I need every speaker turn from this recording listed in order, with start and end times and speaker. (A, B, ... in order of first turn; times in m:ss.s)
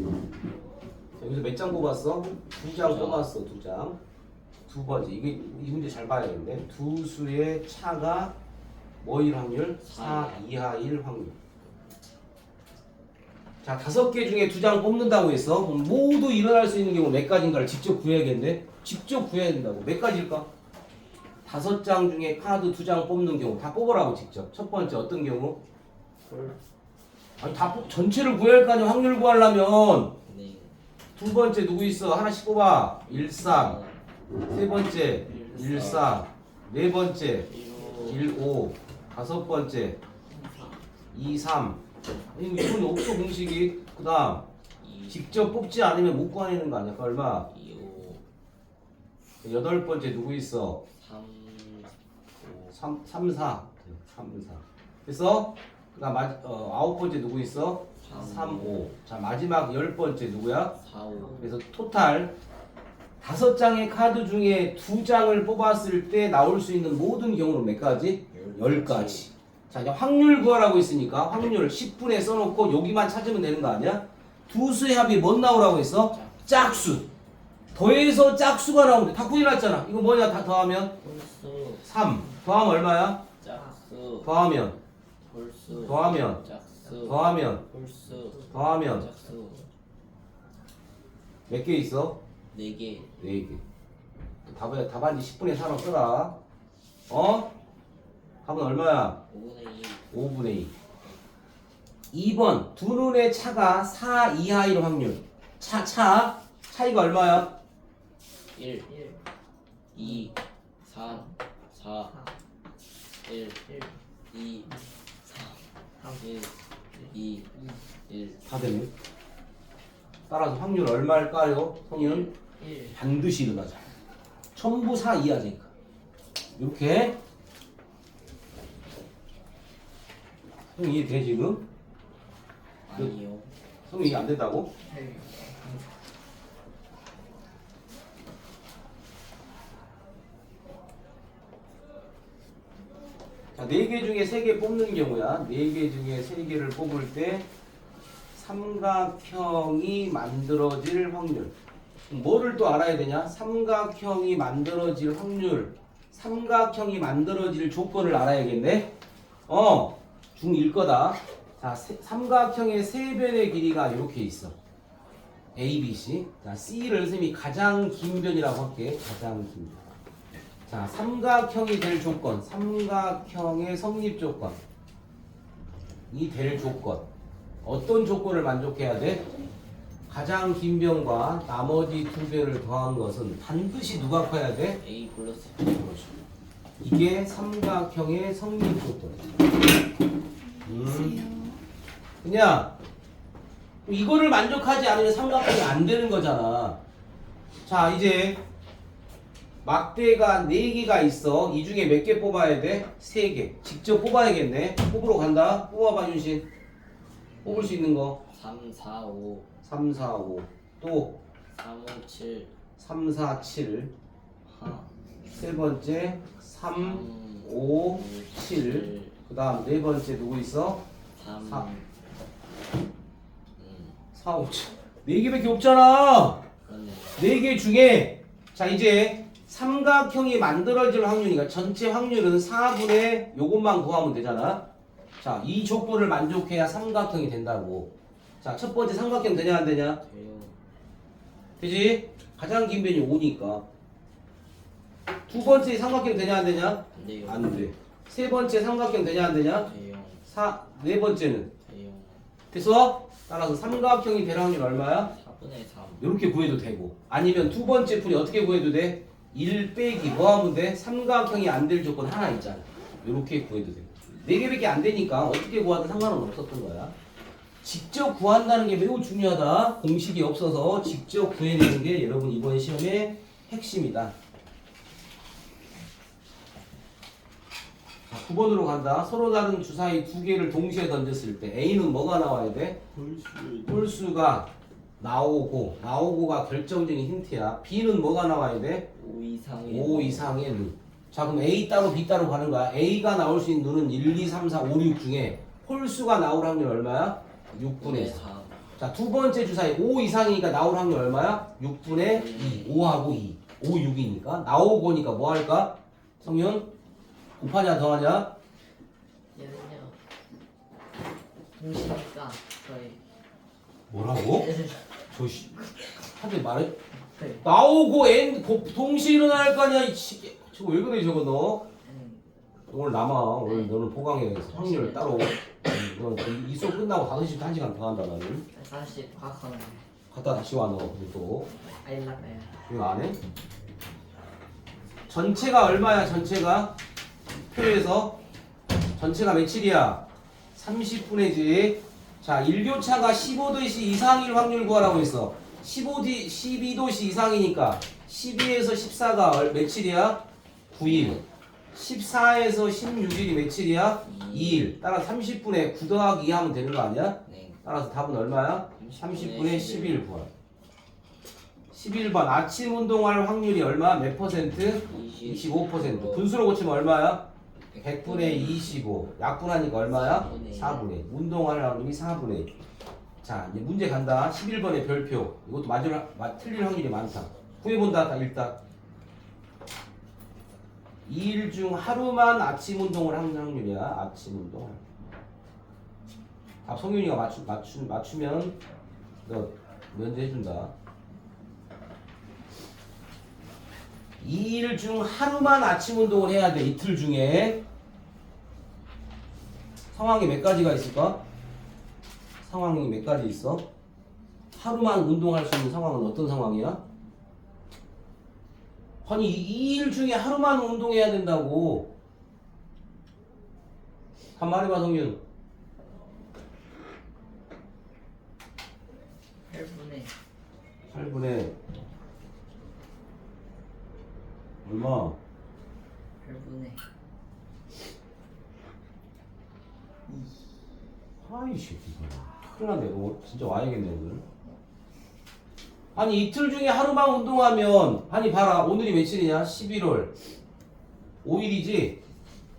0:01.2-0:04.0 A
0:02.7-0:03.3 B
0:04.7-0:08.3 A
0:09.0-0:11.4 A
0:09.8-0:10.5 B
0:13.6-0:20.5 A
0:21.4-0:25.6 A
0:26.2-0:26.6 B
0:27.4-0:30.2 A
0:30.2-0:30.7 B
0:31.2-0:33.8 A
0:33.0-0:34.0 B
0:34.4-0:40.0 A
0:35.3-0:36.2 B
0:35.3-0:36.1 C
0:37.4-0:38.3 B
0:40.3-0:40.8 C
0:41.1-0:41.8 A
0:42.3-0:44.4 A
0:44.8-0:45.5 B
0:45.1-0:47.5 A
0:47.5-0:48.2 B
0:49.4-0:50.8 A
0:51.0-0:52.7 B
0:52.7-1:00.8 A
0:58.0-0:58.8 B
1:00.8-1:01.5 B
1:01.4-1:02.4 A
1:03.2-1:17.0 A
1:08.3-1:09.3 B
1:16.1-1:17.1 B
1:17.7-1:21.0 A
1:21.0-1:21.9 B
1:21.8-1:23.2 A
1:23.4-1:24.3 B
1:24.2-1:24.8 A
1:25.2-1:29.6 B
1:25.8-1:26.4 A
1:26.8-1:27.1 C
1:27.0-1:27.6 A
1:28.1-1:29.7 C
1:28.5-1:29.1 A
1:31.5-1:32.2 A
1:32.5-1:33.1 B
1:33.2-1:33.6 A
1:34.4-1:36.4 A
1:37.1-1:37.5 A
1:38.4-1:39.2 A
1:39.3-1:40.0 B
1:40.1-1:40.7 A
1:42.1-1:47.5 A
1:48.5-1:48.9 B
1:48.9-1:49.2 C
1:49.9-1:52.2 B
1:50.0-1:50.3 C
1:50.9-1:51.4 C
1:52.1-1:52.3 C
1:53.2-1:53.6 B
1:53.7-1:54.0 C
1:54.3-1:57.5 B
1:57.5-1:57.8 C
1:58.1-1:58.4 B
1:58.4-1:58.9 A
2:00.3-2:02.3 A
2:02.1-2:03.0 C
2:02.9-2:03.8 A
2:04.5-2:05.7 A
2:06.6-2:07.2 A
2:10.7-2:11.6 A
2:12.9-2:13.5 B
2:13.9-2:14.7 A
2:14.8-2:15.8 C
2:23.5-2:27.5 A
2:28.3-2:31.5 A
2:32.1-2:38.9 A
2:39.5-2:44.5 A
2:45.5-2:49.8 A
2:50.7-2:54.6 A
2:56.1-2:57.1 A
2:57.6-2:59.2 A
3:00.1-3:04.8 A
3:04.8-3:05.6 B
3:05.6-3:06.1 A
3:06.8-3:09.5 A
3:10.6-3:11.4 A
3:12.2-3:12.7 A
3:13.8-3:16.8 A
3:17.6-3:18.4 A
3:19.6-3:26.4 A
3:27.4-3:29.5 B
3:27.4-3:28.2 A
3:29.6-3:31.2 A
3:31.5-3:32.5 B
3:32.8-3:33.9 A
3:34.4-3:34.9 B
3:35.4-3:40.8 A
3:36.7-3:39.2 B
3:41.1-3:41.9 B
3:43.6-3:44.0 B
3:44.1-3:46.4 A
3:46.6-3:47.3 B
3:47.2-3:54.6 A
3:55.2-4:00.0 A
4:00.0-4:00.6 B
4:01.6-4:03.6 A
4:05.3-4:09.7 A
4:06.9-4:07.7 B
4:09.4-4:10.2 B
4:10.2-4:11.5 A
4:11.6-4:12.3 B
4:12.5-4:15.1 A
4:15.0-4:16.1 B
4:16.0-4:26.9 A
4:27.6-4:34.1 A
4:38.1-4:42.9 A
4:42.9-4:44.0 B
4:43.6-4:48.9 A
4:48.9-4:50.4 B
4:49.6-4:58.2 A
4:57.5-4:58.6 B
4:58.8-5:06.7 A
5:02.0-5:02.8 B
5:07.4-5:08.3 A
5:09.3-5:10.0 C
5:11.6-5:13.0 C
5:13.9-5:14.5 A
5:14.3-5:15.0 C
5:15.1-5:15.5 A
5:16.2-5:16.8 A
5:17.1-5:17.4 C
5:17.4-5:21.6 A
5:21.8-5:22.2 C
5:22.7-5:28.5 A
5:23.4-5:23.8 C
5:24.5-5:25.3 C
5:28.5-5:29.8 C
5:30.1-5:31.5 A
5:31.7-5:32.6 C
5:32.7-5:33.2 A
5:35.1-5:36.8 A
5:37.3-5:38.2 A
5:39.0-5:51.2 A
5:50.8-5:51.2 B
5:51.7-6:00.3 A
5:54.0-5:54.8 B
5:57.2-5:57.6 B
5:58.7-6:00.0 B
6:01.7-6:07.2 A
6:04.8-6:06.3 B
6:07.7-6:08.7 B
6:07.8-6:12.5 A
6:09.9-6:10.9 B
6:13.2-6:18.6 A
6:21.0-6:24.8 A
6:26.6-6:28.6 A
6:29.2-6:30.7 A
6:34.2-6:37.6 A
6:39.9-6:41.2 A
6:42.4-6:43.6 A
6:44.5-6:46.8 A
6:49.0-6:51.9 A
6:54.4-6:55.2 A
6:59.5-7:00.1 C
7:00.9-7:01.5 A
7:04.6-7:05.2 A
7:06.2-7:06.8 C
7:10.1-7:10.4 C
7:11.2-7:14.2 A
7:15.9-7:20.1 A
7:21.2-7:22.0 A